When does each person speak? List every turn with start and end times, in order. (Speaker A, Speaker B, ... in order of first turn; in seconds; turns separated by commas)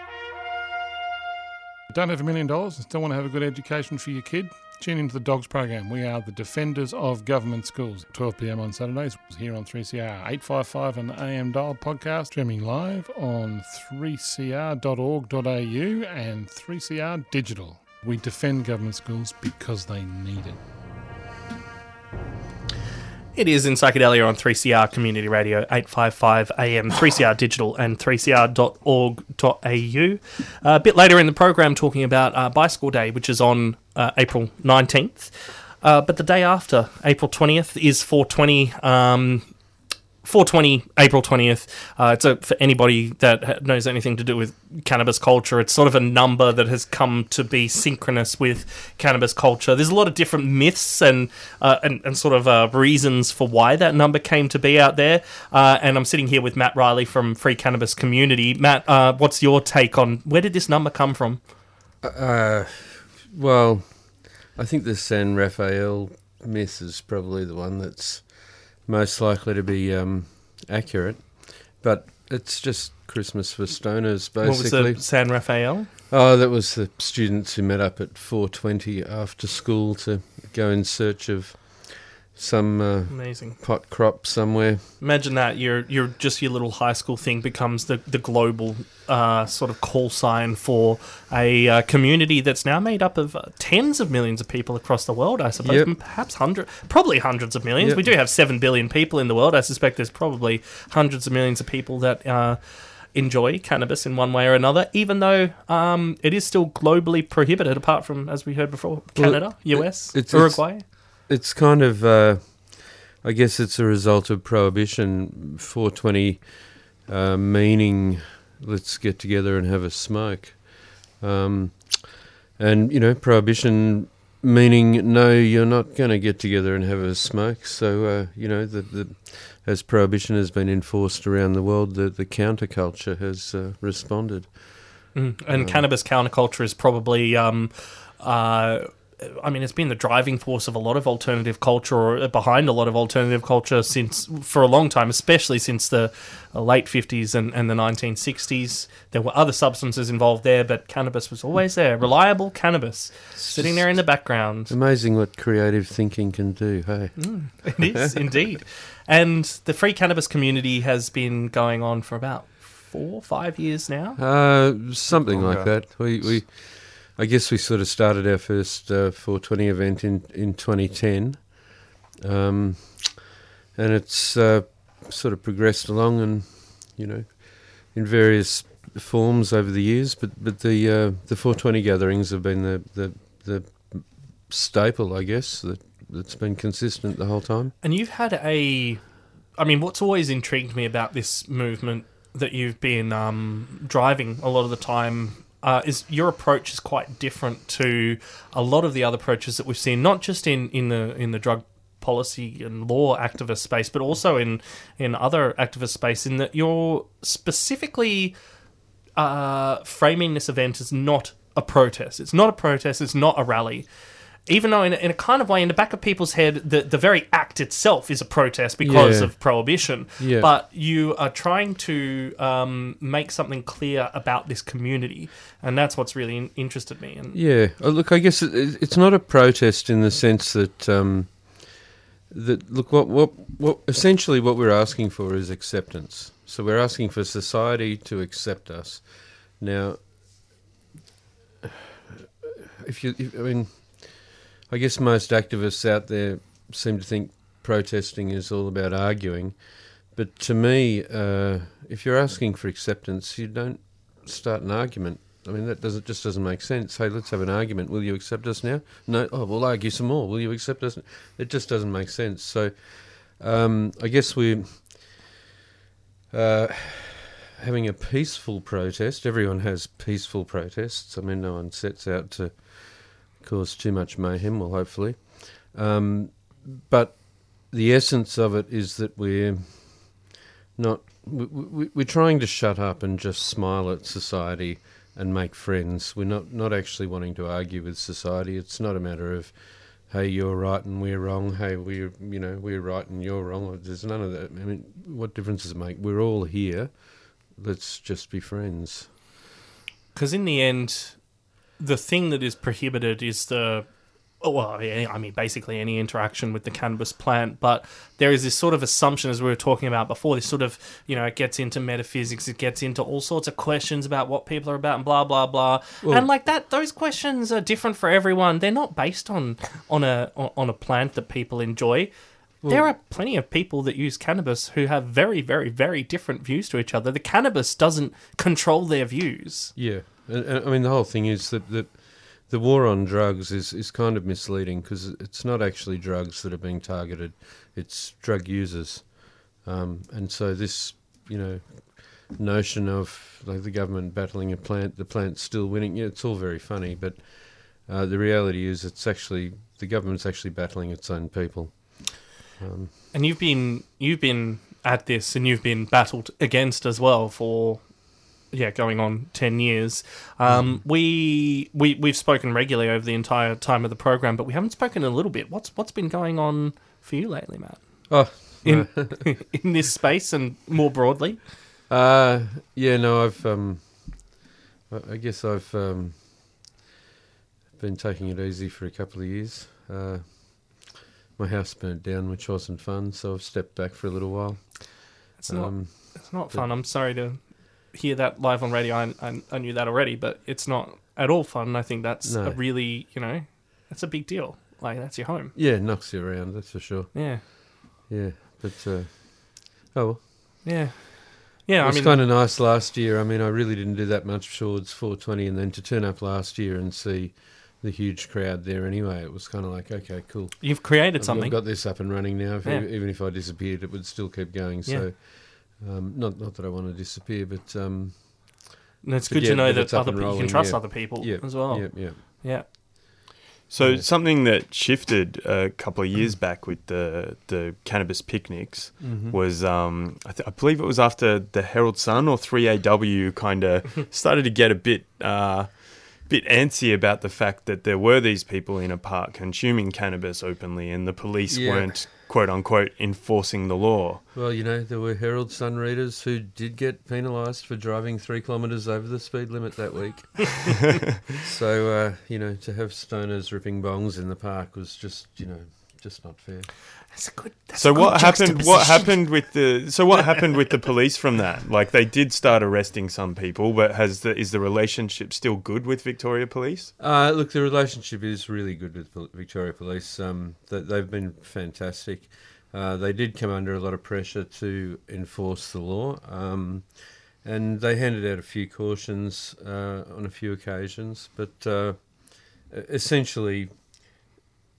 Speaker A: 1.9-20.6, Speaker B: 23.4-39.5, Speaker B: 40.2-61.5, Speaker C: 62.0-75.6, Speaker B: 74.4-75.9, Speaker C: 76.1-84.9, Speaker B: 83.1-83.6, Speaker B: 85.0-110.8, Speaker C: 95.6-96.0, Speaker C: 97.8-98.2, Speaker C: 109.2-135.9, Speaker B: 135.1-154.7, Speaker C: 153.4-158.0, Speaker B: 157.2-164.2, Speaker C: 164.2-173.2, Speaker D: 165.1-166.2, Speaker C: 173.8-187.7, Speaker B: 187.8-208.4, Speaker B: 209.2-227.4, Speaker C: 218.8-220.5, Speaker C: 227.3-240.5, Speaker C: 241.6-265.4, Speaker C: 266.3-299.1, Speaker B: 300.1-329.7, Speaker C: 316.0-316.3, Speaker C: 322.6-322.9, Speaker C: 329.8-353.0, Speaker B: 353.1-371.4, Speaker C: 360.5-360.8, Speaker C: 368.1-369.4, Speaker C: 371.9-376.6, Speaker C: 377.8-386.8, Speaker B: 385.4-395.5, Speaker C: 392.2-392.6, Speaker C: 395.5-400.6, Speaker B: 397.1-397.4, Speaker B: 400.6-402.2, Speaker C: 401.8-418.8, Speaker B: 410.6-412.9, Speaker B: 419.0-422.6, Speaker C: 419.3-422.2, Speaker D: 423.7-444.2, Speaker C: 423.8-424.1, Speaker C: 429.0-429.4, Speaker C: 441.5-442.1, Speaker C: 444.3-456.8, Speaker B: 457.1-459.6, Speaker D: 457.7-466.9, Speaker C: 467.0-483.7